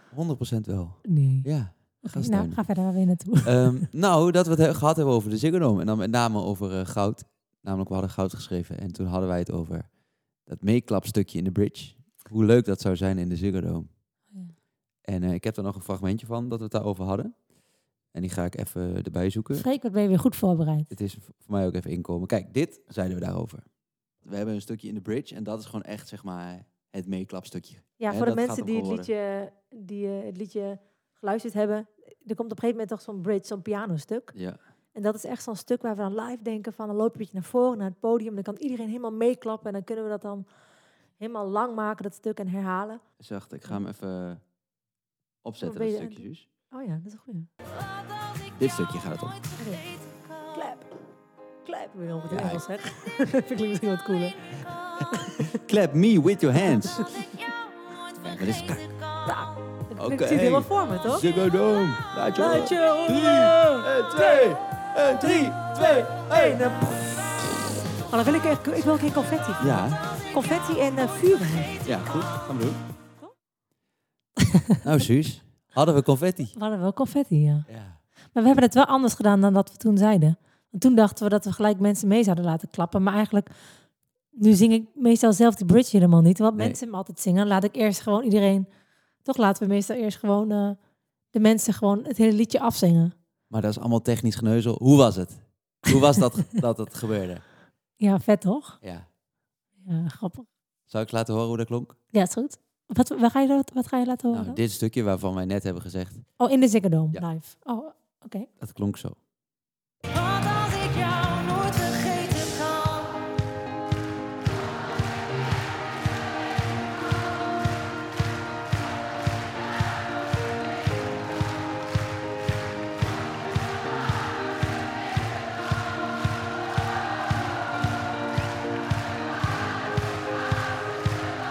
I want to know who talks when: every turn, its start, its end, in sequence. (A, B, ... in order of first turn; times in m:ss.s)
0:00.1-0:02.6 A
0:01.0-0:03.9 B
0:03.4-0:09.9 A
0:10.4-0:13.9 A
0:15.0-0:17.4 A
0:18.1-0:19.6 A
0:19.5-0:20.9 B
0:20.9-0:23.7 A
0:24.2-0:29.1 A
0:28.0-0:34.3 B
0:35.0-0:40.5 B
0:41.2-0:43.0 B
0:43.2-0:44.4 A
0:45.4-0:46.5 A
0:45.6-0:47.5 B
0:48.5-0:49.5 A
0:49.5-0:50.9 B
0:51.6-0:55.6 B
0:52.3-0:52.6 A
0:55.5-0:57.1 A
0:56.7-1:01.2 B
0:58.2-0:58.9 A
1:00.0-1:06.6 A
1:02.4-1:04.5 B
1:05.2-1:07.2 B
1:08.1-1:11.9 B
1:09.6-1:10.0 A
1:11.8-1:12.8 A
1:14.4-1:14.8 B
1:14.8-1:16.6 A
1:16.6-1:17.7 B
1:17.7-1:18.0 A
1:18.3-1:23.5 B
1:24.4-1:28.7 B
1:29.2-1:30.8 B
1:31.3-1:33.1 B
1:33.5-1:37.4 A
1:38.0-1:38.8 B
1:38.8-1:39.1 A
1:39.8-1:40.5 B
1:40.9-1:42.0 A
1:42.1-1:44.6 B
1:44.3-1:46.3 A
1:46.4-1:48.5 B
1:48.6-1:49.2 A
1:50.0-1:53.3 B